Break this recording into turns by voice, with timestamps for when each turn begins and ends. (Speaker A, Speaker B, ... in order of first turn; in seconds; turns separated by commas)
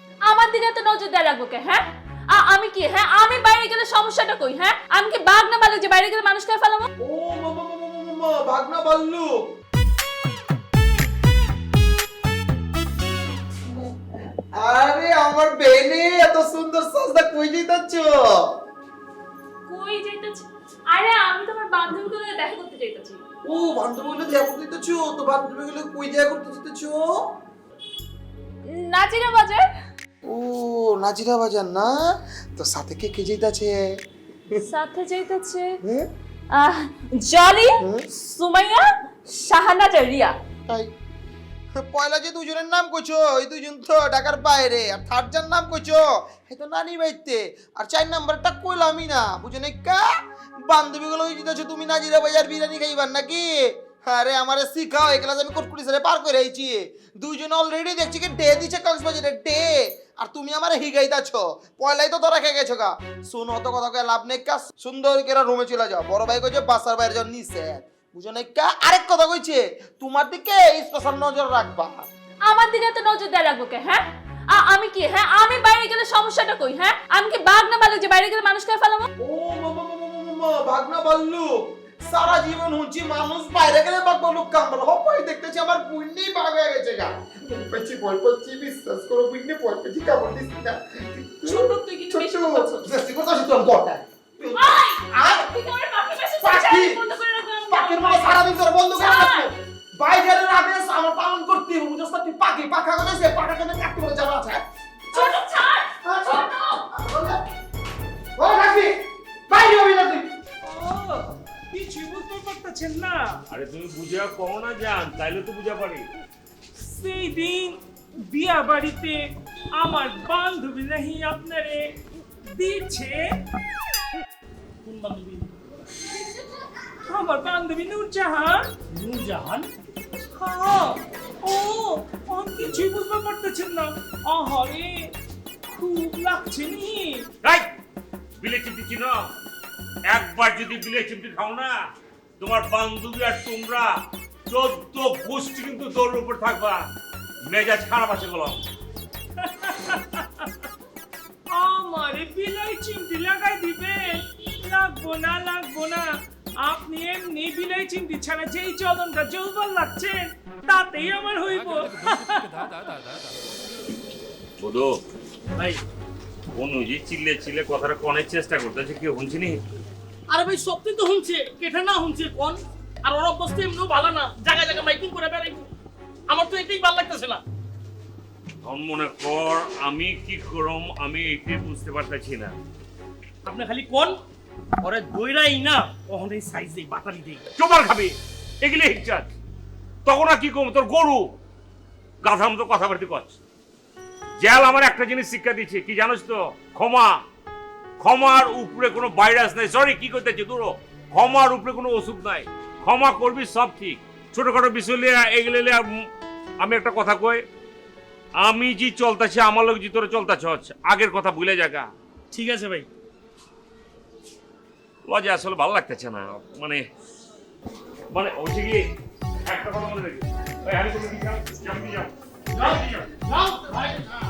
Speaker A: 0.3-6.9, Speaker B: 7.0-9.5, Speaker B: 14.6-18.5, Speaker A: 19.7-23.2, Speaker B: 23.5-27.1, Speaker A: 28.7-29.6, Speaker B: 30.2-34.0, Speaker A: 34.6-35.8, Speaker B: 35.8-36.1, Speaker A: 36.5-40.3, Speaker B: 37.8-38.1, Speaker B: 41.8-72.1, Speaker A: 72.5-79.1, Speaker B: 79.2-95.5, Speaker A: 91.5-92.9, Speaker A: 94.5-99.5, Speaker B: 96.4-97.0, Speaker B: 97.7-105.3, Speaker A: 105.1-106.8, Speaker B: 106.0-107.4, Speaker B: 108.4-109.0, Speaker B: 109.5-110.3, Speaker C: 110.6-113.4, Speaker D: 113.5-116.0, Speaker C: 116.8-121.9, Speaker C: 122.5-123.3, Speaker E: 124.8-125.5, Speaker C: 127.0-128.7, Speaker E: 128.9-129.7, Speaker C: 130.3-135.1, Speaker C: 135.7-137.3, Speaker D: 137.4-137.7, Speaker D: 138.4-139.2, Speaker D: 140.1-141.8, Speaker D: 142.4-143.9, Speaker D: 144.5-146.8, Speaker D: 147.5-148.6, Speaker C: 149.4-150.5, Speaker C: 151.5-162.7, Speaker D: 164.6-165.0, Speaker E: 165.6-165.8, Speaker D: 166.5-169.7, Speaker E: 170.3-175.7, Speaker E: 176.3-177.4, Speaker D: 178.6-182.6, Speaker E: 183.4-184.2, Speaker E: 184.8-187.4, Speaker D: 187.6-189.4, Speaker D: 190.1-191.3, Speaker D: 192.2-193.4, Speaker D: 194.4-197.2, Speaker D: 198.0-206.0, Speaker D: 206.6-207.4, Speaker D: 208.4-211.9, Speaker E: 212.3-212.9, Speaker D: 215.1-216.8, Speaker D: 218.1-218.8, Speaker D: 219.4-222.1, Speaker E: 222.6-224.1, Speaker D: 222.6-223.2